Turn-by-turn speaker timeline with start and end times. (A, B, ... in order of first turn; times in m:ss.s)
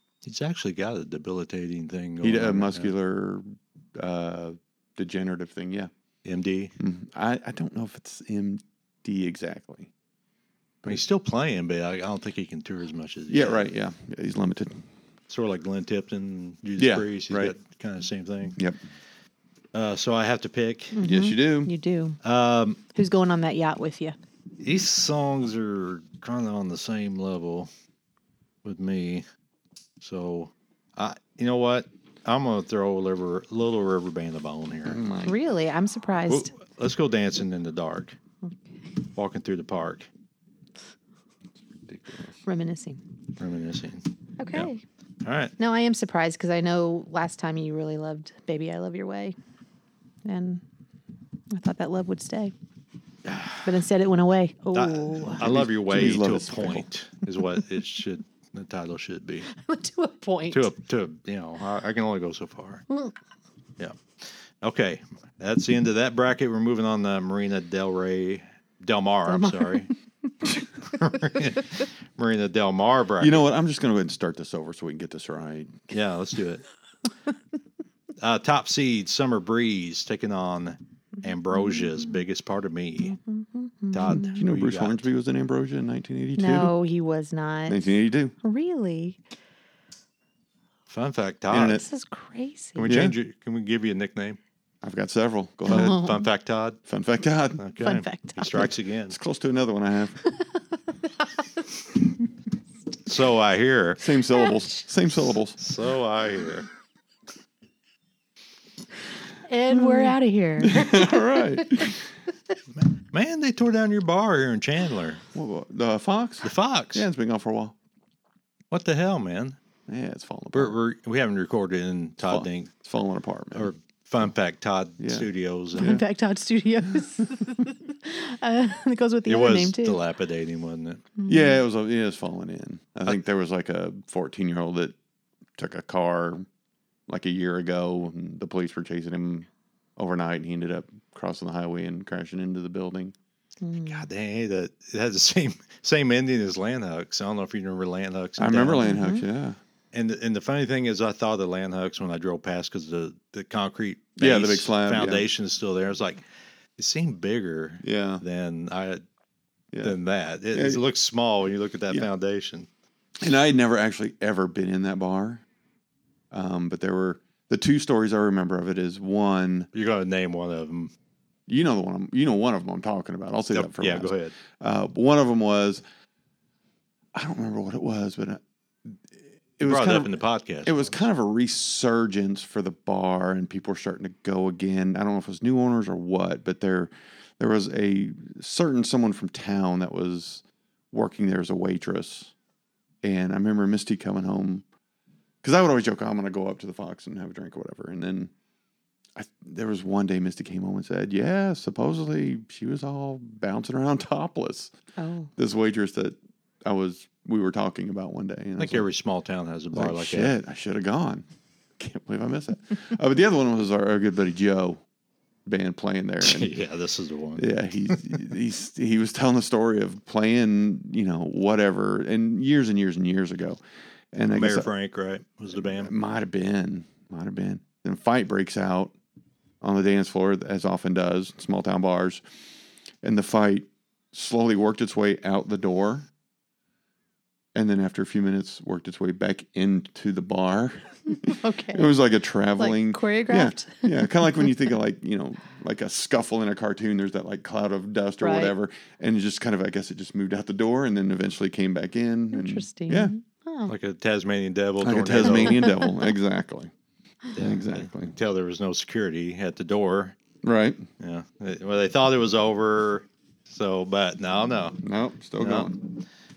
0:00.2-0:02.9 A
0:02.2-0:05.9 B
0:06.2-0:06.7 A
0:06.8-0:09.9 B
0:10.9-0:13.7 A
0:13.3-0:14.8 B
0:15.3-0:18.6 A
0:16.8-0:17.6 B
0:19.7-0:21.0 A
0:20.9-0:22.2 C
0:21.0-0:21.7 B
0:22.2-0:22.8 A
0:22.9-0:24.2 C
0:24.6-0:27.7 A
0:28.6-0:29.2 A
0:30.0-0:35.0 A
0:34.9-0:35.4 B
0:35.2-0:36.5 C
0:36.3-0:38.2 A
0:38.4-0:38.7 C
0:39.2-0:40.1 A
0:41.7-0:42.4 B
0:42.4-0:43.0 C
0:43.4-0:44.7 A
0:44.4-0:44.8 C
0:45.2-0:45.5 A
0:45.6-0:49.4 C
0:50.2-0:50.6 C
0:51.5-0:52.5 C
0:53.3-0:53.7 A
0:53.6-0:55.4 C
0:54.7-0:59.5 A
0:55.3-0:56.9 B
0:59.5-1:00.7 C
1:00.5-1:02.9 A
1:03.8-1:09.9 A
1:09.3-1:09.9 C
1:10.8-1:13.4 A
1:13.2-1:15.8 B
1:15.9-1:16.6 A
1:18.2-1:23.2 A
1:23.0-1:24.4 C
1:23.9-1:25.1 A
1:24.1-1:26.7 B
1:26.4-1:29.2 C
1:27.7-1:28.3 B
1:30.9-1:31.8 A
1:31.5-1:31.8 B
1:31.7-1:32.9 C
1:32.8-1:34.4 A
1:32.8-1:33.2 B
1:34.8-1:36.2 B
1:35.7-1:36.8 A
1:35.7-1:36.3 C
1:36.9-1:37.6 B
1:37.6-1:39.2 A
1:37.8-1:38.4 C
1:38.4-1:40.2 B
1:43.1-1:44.2 A
1:44.0-1:45.6 B
1:45.6-1:46.7 A
1:49.5-1:51.9 C
1:50.6-1:52.0 B
1:52.8-1:55.2 A
1:55.3-1:57.8 B
1:56.4-1:57.1 A
1:58.7-1:59.6 A
1:59.9-2:00.8 B
2:00.5-2:02.7 A
2:02.2-2:03.7 B
2:03.6-2:06.0 A
2:05.0-2:06.0 B
2:05.8-2:10.0 C
2:09.3-2:11.0 A
2:11.2-2:11.6 C
2:11.3-2:15.0 B
2:15.6-2:16.5 B
2:17.1-2:23.1 B
2:23.6-2:24.1 C
2:23.9-2:28.9 A
2:28.4-2:29.6 B
2:28.8-2:29.2 C
2:29.9-2:36.2 A
2:34.2-2:35.2 B
2:36.8-2:39.0 A
2:37.8-2:38.2 B
2:39.8-2:42.7 A
2:40.5-2:40.8 B
2:43.2-2:45.4 B
2:46.3-2:49.7 B
2:49.7-2:50.9 A
2:51.5-2:55.8 B
2:53.5-2:54.4 A
2:57.1-3:12.3 B
2:59.6-3:01.0 A
3:13.0-3:14.6 B
3:15.4-3:18.3 B
3:19.2-3:24.7 B
3:25.0-3:25.3 C
3:25.4-3:28.9 B
3:28.6-3:30.4 A
3:29.7-3:31.2 B
3:31.8-3:34.8 B
3:35.5-3:36.5 B
3:36.2-3:38.2 A
3:37.4-3:43.6 B
3:44.1-3:44.7 B
3:44.3-3:45.9 A
3:45.5-3:49.0 B
3:49.6-3:52.2 B
3:53.0-3:56.1 B
3:57.6-4:13.1 B
4:01.1-4:01.9 C
4:02.6-4:04.5 C
4:08.2-4:08.5 C
4:12.3-4:13.7 C
4:13.7-4:15.7 A
4:14.8-4:16.7 B
4:15.2-4:15.9 C
4:17.4-4:20.2 A
4:17.4-4:18.1 B
4:20.4-4:20.8 B
4:21.0-4:24.8 A
4:24.8-4:25.8 B
4:25.4-4:25.8 A